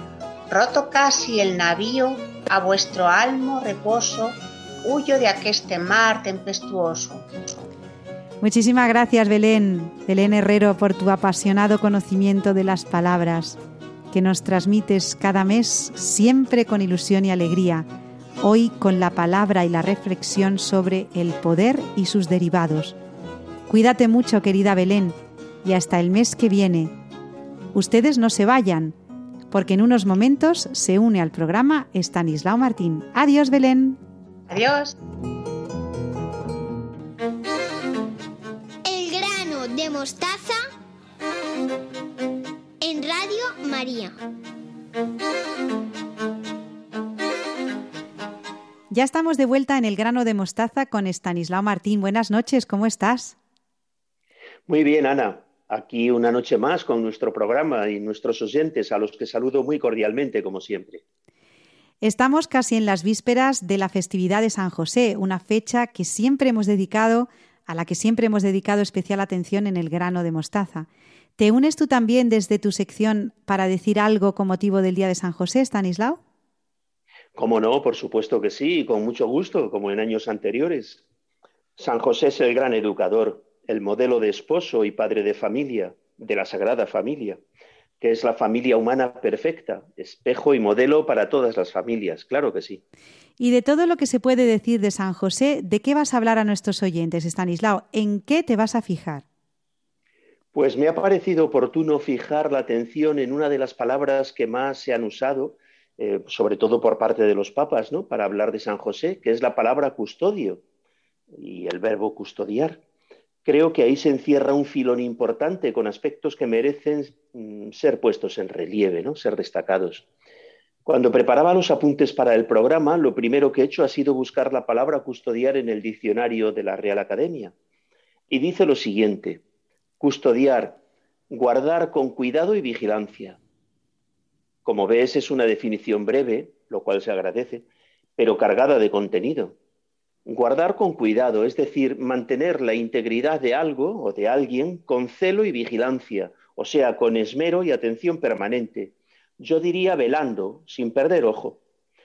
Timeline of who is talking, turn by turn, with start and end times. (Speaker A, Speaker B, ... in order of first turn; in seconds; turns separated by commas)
Speaker A: 0.5-7.3, Speaker B: 8.4-13.6, Speaker B: 14.1-17.9, Speaker B: 18.4-23.0, Speaker B: 23.7-26.9, Speaker B: 27.7-28.9, Speaker B: 29.5-34.0, Speaker A: 34.5-35.0, Speaker C: 38.9-40.7, Speaker C: 42.8-44.1, Speaker B: 48.9-53.4, Speaker D: 54.7-61.0, Speaker B: 62.0-70.9, Speaker B: 71.4-76.2, Speaker D: 77.3-81.0, Speaker D: 81.8-87.4, Speaker D: 88.0-92.8, Speaker B: 93.4-99.2, Speaker D: 100.5-110.6, Speaker D: 111.3-112.8, Speaker D: 113.4-120.0, Speaker D: 120.8-127.5, Speaker D: 128.3-129.4, Speaker D: 130.0-130.8, Speaker D: 131.3-133.4, Speaker D: 134.6-137.7, Speaker D: 138.2-139.6, Speaker D: 140.2-151.6